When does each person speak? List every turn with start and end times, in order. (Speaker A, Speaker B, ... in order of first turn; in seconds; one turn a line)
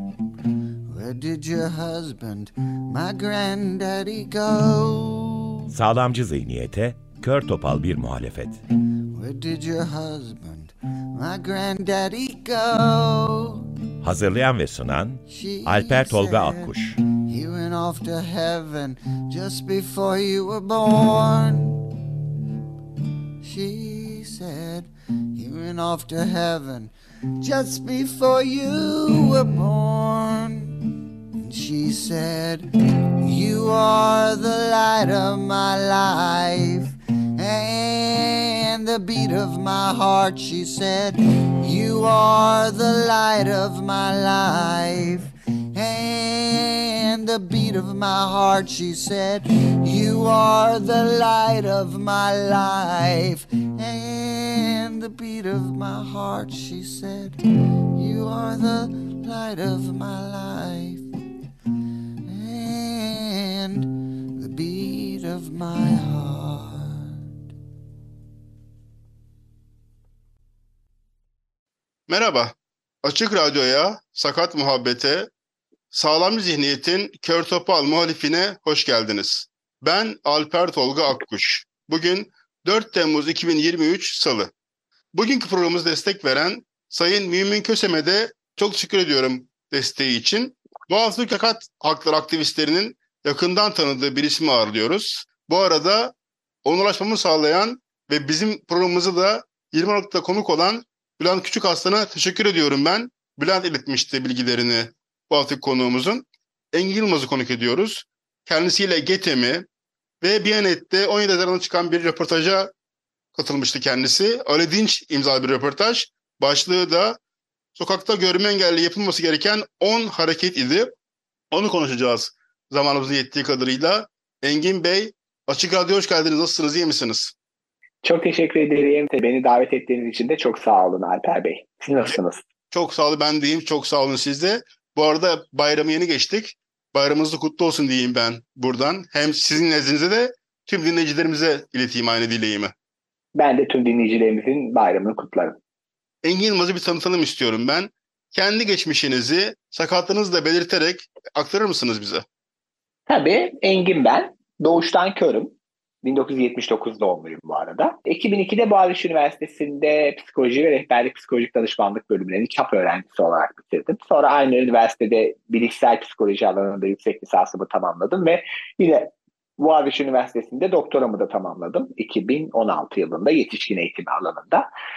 Speaker A: 0.9-5.7
Speaker B: 5.7-8.6
Speaker A: 9.1-13.7
Speaker B: 14.0-16.9
Speaker A: 15.3-21.8
Speaker A: 23.4-30.8
Speaker A: 31.4-32.7
Speaker A: 33.2-57.4
Speaker A: 57.9-61.1
Speaker A: 62.3-67.1
Speaker C: 72.1-75.3
Speaker C: 75.9-84.5
Speaker C: 85.1-96.1
Speaker C: 96.7-109.7
Speaker C: 110.2-112.7
Speaker C: 113.3-117.2
Speaker C: 117.8-120.9
Speaker C: 121.5-127.3
Speaker D: 128.0-132.4
Speaker C: 132.7-142.7
Speaker D: 143.3-145.6
Speaker C: 146.2-152.2
Speaker D: 153.1-174.7